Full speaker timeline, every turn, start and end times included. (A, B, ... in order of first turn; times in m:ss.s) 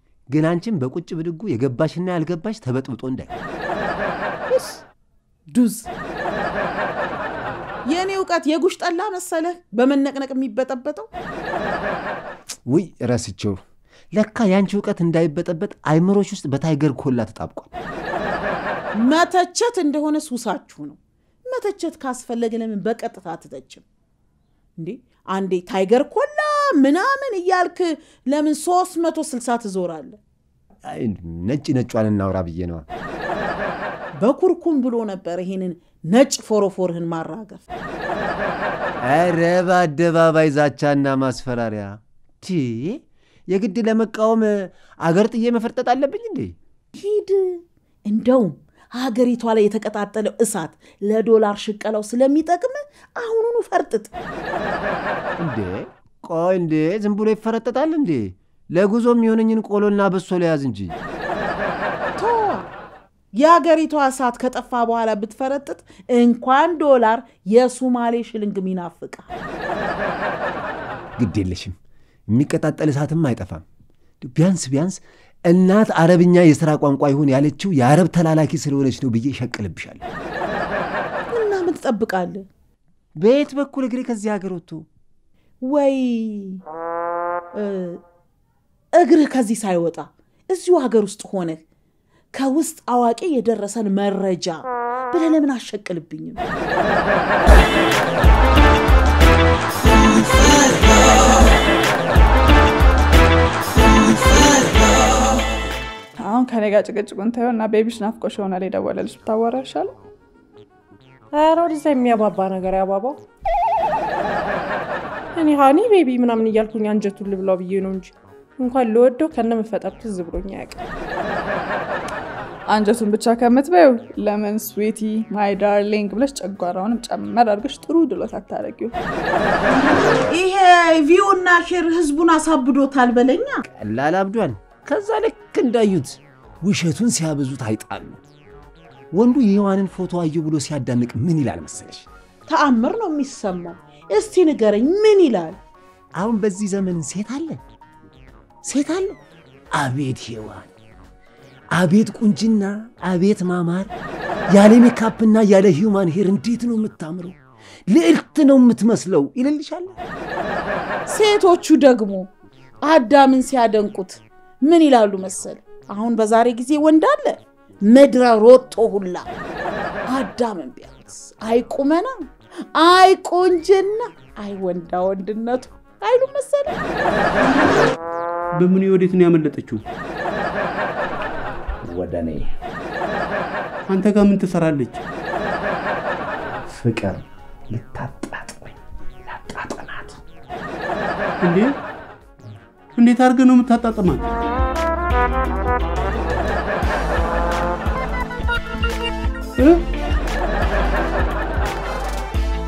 0:00.3-0:03.4 A
0:04.5-0:04.8 B
0:05.5-0:05.9 B
0:07.9-0:11.1 B
0:12.7-0:13.6 A
0:14.1-0:17.7 A
0:19.0-0:21.0 B
0:21.5-0:23.8 B
0:24.8-0:30.2 B
0:30.9-0:32.8 A
0:34.2-0:37.6 B
0:39.0-0:46.5 A
0:46.9-0:54.1 B
0:55.4-1:01.0 A
1:02.2-1:02.7 B
1:03.4-1:09.3 B
1:11.2-1:11.8 A
1:12.3-1:13.6 A
1:14.2-1:20.0 A
1:21.3-1:22.4 B
1:23.2-1:24.8 A
1:25.6-1:26.6 B
1:27.6-1:28.0 B
1:29.0-1:31.6 B
1:32.4-1:36.4 B
1:46.2-1:49.9 C
1:51.3-1:53.2 D
1:55.4-2:00.8 D
2:02.7-2:08.9 C
2:10.3-2:13.6 B
2:13.8-2:18.2 A
2:19.1-2:22.0 A
2:22.5-2:25.6 B
2:26.2-2:27.6 A
2:28.6-2:29.2 A
2:29.8-2:30.7 A
2:31.7-2:33.9 A
2:34.5-2:37.4 A
2:37.9-2:39.9 A
2:41.1-2:42.3 B
2:42.8-2:49.3 B
2:50.1-2:52.1 B
2:52.8-2:56.8 B
2:58.6-2:59.8 E
3:01.8-3:02.5 F
3:03.9-3:05.0 E
3:06.7-3:08.7 F
3:09.2-3:10.2 F
3:11.4-3:11.7 E
3:12.9-3:14.3 E
3:19.6-3:19.8 E